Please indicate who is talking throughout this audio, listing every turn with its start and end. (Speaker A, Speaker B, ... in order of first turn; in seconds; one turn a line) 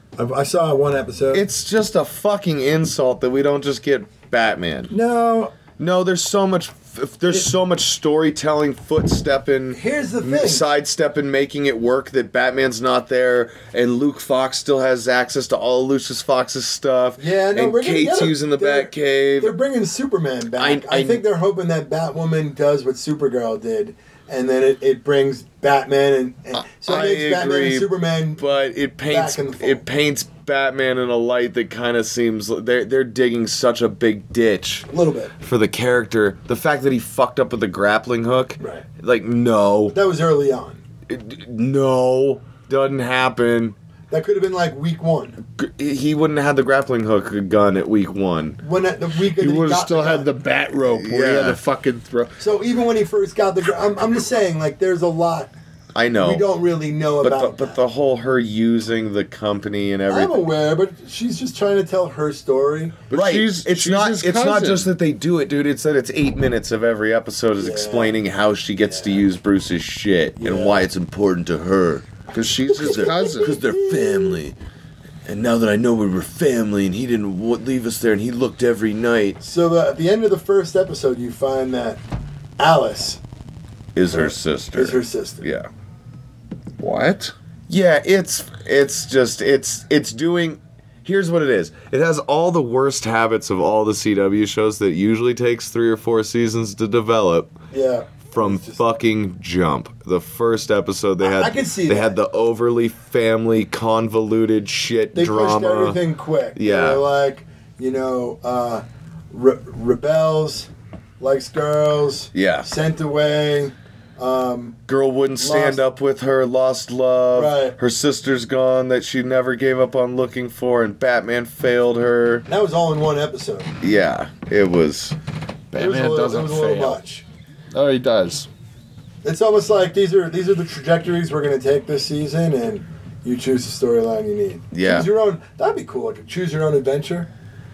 Speaker A: 0.2-1.4
Speaker B: 1.3-4.9
Speaker A: 4.9-5.5
Speaker B: 5.8-19.6
Speaker A: 9.7-10.6
Speaker A: 17.2-28.4
Speaker B: 20.5-21.2
Speaker B: 26.7-34.9
Speaker A: 29.1-29.8
Speaker A: 34.9-35.3
Speaker B: 35.4-40.0
Speaker A: 38.6-38.8
Speaker A: 39.9-40.8
Speaker B: 41.1-43.8
Speaker A: 44.1-45.4
Speaker B: 45.5-48.6
Speaker A: 48.6-50.3
Speaker C: 49.4-52.4
Speaker B: 50.9-51.6
Speaker A: 52.4-55.5
Speaker B: 55.9-56.4
Speaker A: 56.1-57.8
Speaker B: 57.2-60.5
Speaker A: 60.1-63.0
Speaker C: 63.1-64.9
Speaker B: 63.1-72.1
Speaker A: 67.6-68.2
Speaker A: 68.9-69.2
Speaker A: 70.4-70.9
Speaker C: 72.3-73.6
Speaker A: 72.7-74.4
Speaker B: 72.7-74.5
Speaker B: 75.2-79.4
Speaker A: 79.4-82.0
Speaker A: 82.6-83.2
Speaker B: 83.9-85.7
Speaker A: 84.1-85.4
Speaker C: 86.8-87.3
Speaker B: 87.7-97.6
Speaker A: 97.7-98.8
Speaker B: 98.3-106.0
Speaker A: 101.2-102.2
Speaker A: 105.1-110.7
Speaker B: 106.5-107.0
Speaker A: 111.2-114.8
Speaker B: 112.3-112.7
Speaker B: 114.9-122.5
Speaker A: 115.4-115.8
Speaker A: 117.3-117.8
Speaker A: 122.5-123.7
Speaker B: 123.8-125.2
Speaker C: 125.7-127.0
Speaker A: 125.7-127.2
Speaker C: 127.7-128.5
Speaker A: 129.2-137.3
Speaker B: 134.7-135.1